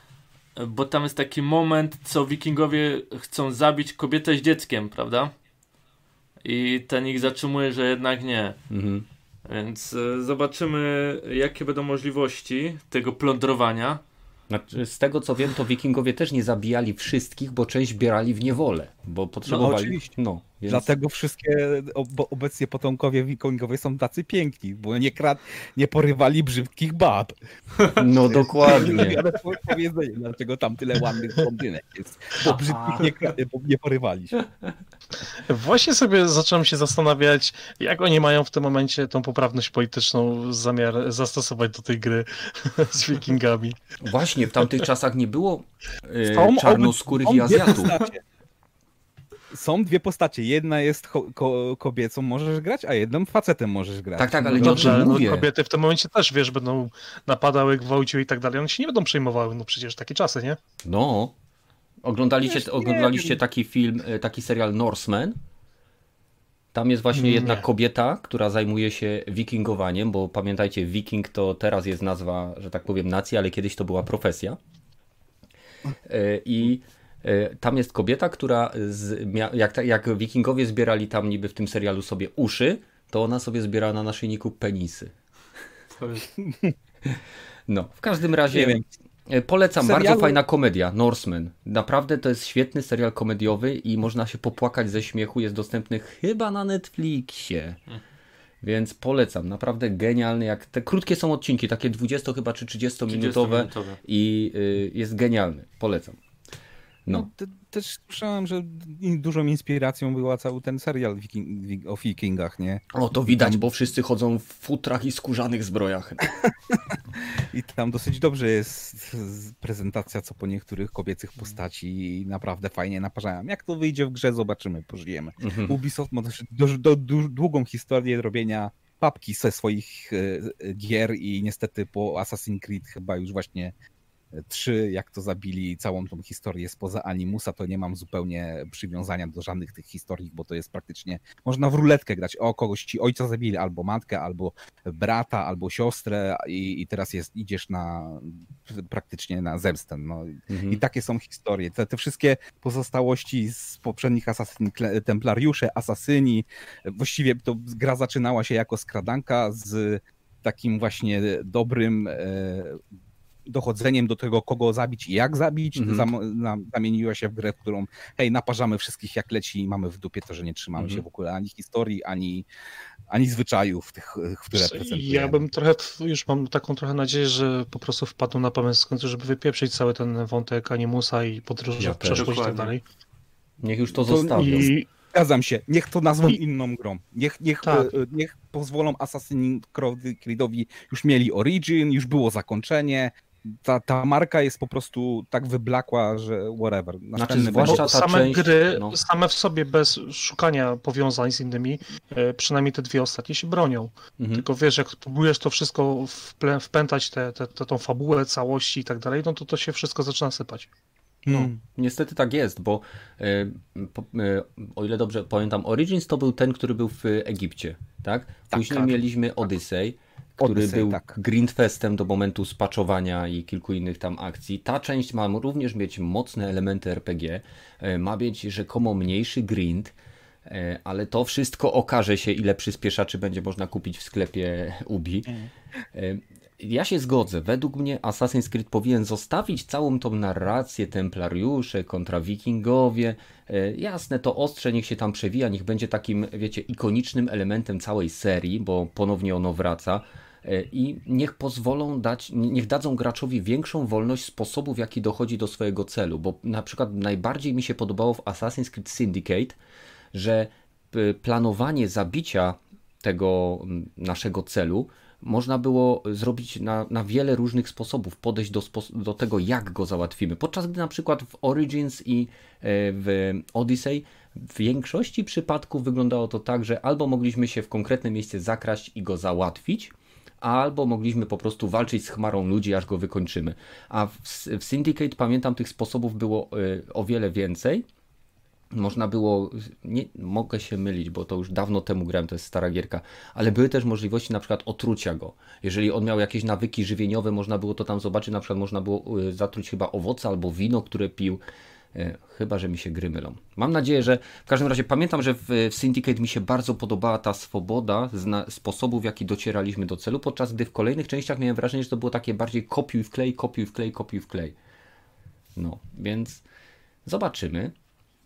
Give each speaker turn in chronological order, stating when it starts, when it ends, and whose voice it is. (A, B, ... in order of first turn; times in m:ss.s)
0:00.6-0:05.3 A
0:06.4-0:08.6 A
0:08.7-0:09.1 B
0:09.4-0:14.0 A
0:14.5-0:20.9 B
0:19.5-0:20.1 C
0:20.7-0:34.4 C
0:27.9-0:29.2 B
0:32.4-0:33.1 B
0:35.5-0:43.8 D
0:44.0-0:48.0 B
0:46.2-0:48.2 C
0:49.5-0:55.3 C
0:54.2-0:55.5 B
0:54.6-1:00.6 D
1:00.8-1:01.3 B
1:02.0-1:05.3 B
1:02.4-1:03.4 C
1:06.7-1:14.6 B
1:07.1-1:07.6 D
1:16.0-1:25.1 B
1:25.9-1:26.3 A
1:26.4-1:26.7 C
1:27.0-1:37.8 B
1:28.5-1:28.8 C
1:29.8-1:30.4 C
1:38.6-1:46.2 B
1:43.1-1:44.0 A
1:47.1-1:53.6 C
1:52.9-1:56.3 B
1:56.7-2:13.7 C
2:05.4-2:05.8 B
2:14.3-2:42.8 C
2:30.5-2:30.8 B
2:43.5-2:52.4 C
2:45.8-2:46.1 B
2:50.8-2:51.0 B
2:53.1-2:55.4 C
2:54.5-3:02.8 D
3:01.8-3:02.4 B
3:02.0-3:02.7 A
3:03.6-3:04.7 B
3:04.0-3:17.9 C
3:04.4-3:04.9 D
3:07.6-3:07.9 D
3:17.2-3:19.0 B
3:17.6-3:30.7 D
3:24.2-3:24.4 B
3:31.2-3:31.6 C
3:31.3-3:49.9 B
3:38.5-3:39.0 C
3:40.4-3:41.1 C
3:50.4-3:55.3 B
3:55.9-4:19.6 B
4:20.1-4:47.8 B
4:48.7-5:01.4 B
5:01.9-5:14.6 B
5:15.6-5:16.4 B
5:17.0-5:17.7 B